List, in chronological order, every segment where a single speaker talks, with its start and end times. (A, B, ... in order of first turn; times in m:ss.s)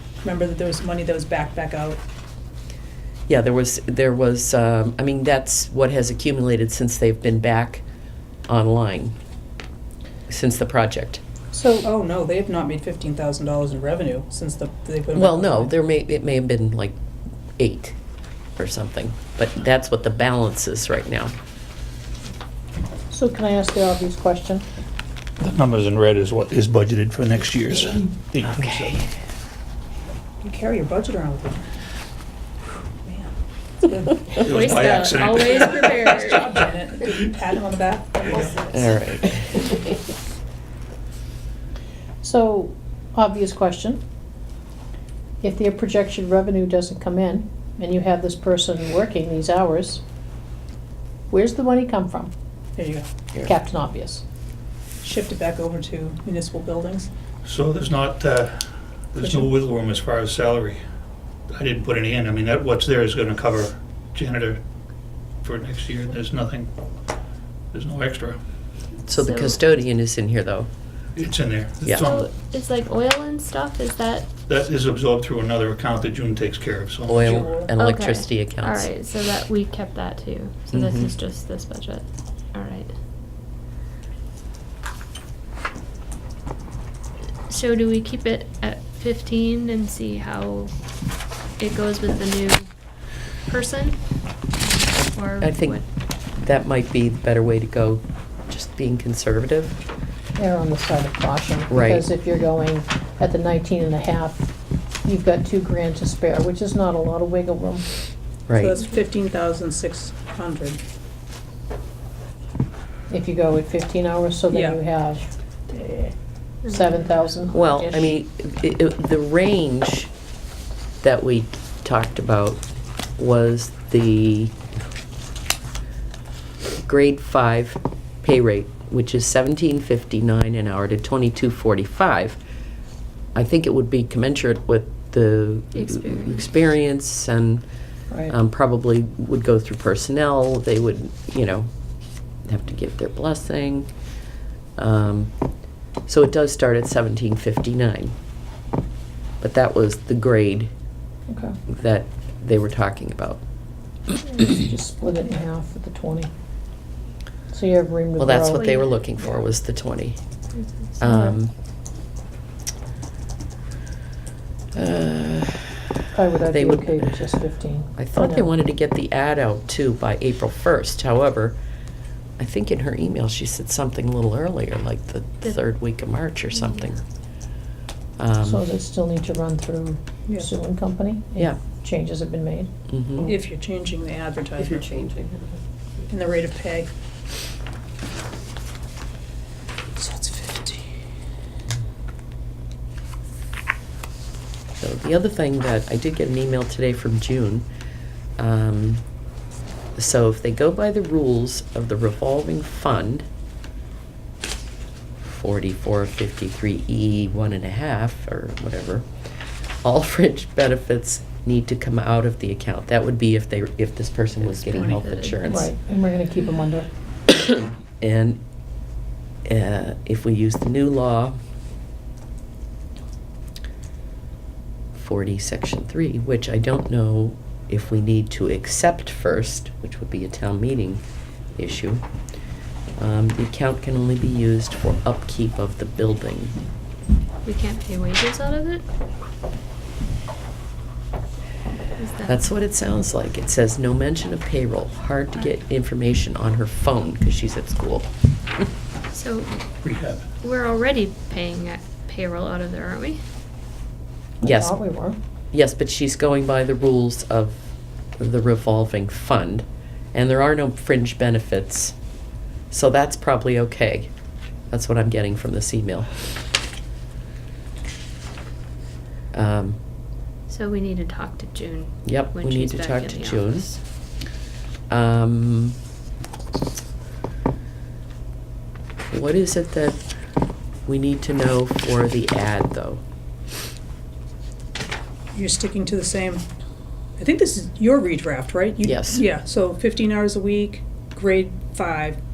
0:00.2-0:02.0 A
0:03.3-0:07.8 B
0:08.5-0:09.1 B
0:10.3-0:11.2 B
0:11.5-0:15.7 A
0:15.1-0:17.0 B
0:17.6-0:18.0 B
0:18.6-0:21.3 B
0:23.1-0:24.6 C
0:25.4-0:29.0 D
0:30.4-0:31.7 A
0:33.0-0:38.7 A
0:34.4-0:36.0 D
0:34.5-0:36.5 E
0:38.6-0:39.9 B
0:42.2-0:44.0 C
0:45.4-0:50.0 C
0:51.3-0:52.3 C
0:52.8-0:53.1 A
0:53.4-0:54.2 C
0:55.0-0:57.1 A
0:57.4-1:00.8 D
1:01.5-1:04.6 D
1:05.4-1:06.7 D
1:07.7-1:08.4 D
1:09.1-1:10.7 B
1:09.1-1:09.6 E
1:11.2-1:12.2 D
1:11.8-1:12.2 B
1:11.9-1:14.3 E
1:14.5-1:17.5 D
1:17.0-1:18.9 B
1:17.2-1:17.7 A
1:17.8-1:22.9 E
1:20.7-1:21.1 B
1:27.5-1:30.7 E
1:31.6-1:32.7 E
1:33.5-1:34.0 E
1:34.6-1:35.8 E
1:34.9-1:35.8 B
1:36.4-1:39.8 B
1:40.4-1:44.5 C
1:41.7-1:42.1 B
1:45.0-1:47.8 C
1:48.5-1:48.7 B
1:48.5-1:50.8 A
1:53.1-1:56.1 C
1:54.5-1:54.8 A
1:56.6-1:57.5 E
1:56.6-1:58.1 C
1:57.5-2:00.1 B
2:01.0-2:02.6 B
2:03.2-2:04.5 B
2:06.8-2:12.4 B
2:13.3-2:17.6 B
2:15.7-2:16.4 E
2:18.3-2:21.7 B
2:22.5-2:23.9 B
2:24.8-2:25.3 B
2:26.1-2:28.1 B
2:29.4-2:30.7 B
2:31.3-2:31.6 C
2:31.7-2:33.4 B
2:34.2-2:36.3 C
2:37.5-2:38.7 C
2:38.2-2:40.2 B
2:38.5-2:39.1 E
2:41.0-2:41.5 B
2:44.7-2:45.8 B
2:46.1-2:48.5 C
2:46.5-2:47.1 B
2:48.0-2:51.6 B
2:52.4-2:57.0 B
2:58.2-2:58.6 B
2:58.4-3:02.7 C
3:02.9-3:03.3 B
3:03.3-3:04.9 A
3:04.9-3:05.4 B
3:06.1-3:06.9 A
3:10.0-3:10.9 A
3:14.8-3:17.6 B
3:18.4-3:19.0 B
3:20.0-3:23.2 B
3:25.2-3:29.1 B
3:29.8-3:35.7 B
3:34.4-3:35.4 E
3:35.5-3:36.9 C
3:37.3-3:38.4 B
3:39.4-3:41.4 B
3:44.9-3:51.0 B
3:51.6-3:52.0 B
3:53.0-3:56.5 B
3:57.4-3:58.8 E
4:02.0-4:02.4 E
4:02.2-4:08.1 B
4:09.1-4:09.5 E
4:09.8-4:10.3 D
4:10.4-4:13.2 E
4:14.4-4:15.2 C
4:14.4-4:14.7 B
4:15.5-4:17.6 B
4:18.2-4:21.9 B
4:22.7-4:24.1 B
4:24.7-4:26.1 B
4:29.3-4:29.8 B
4:30.5-4:33.7 E
4:32.0-4:33.8 B
4:34.9-4:35.8 B
4:39.1-4:40.0 B
4:40.8-4:43.0 B
4:45.3-4:46.4 A
4:47.2-4:52.2 A
4:48.8-4:49.2 B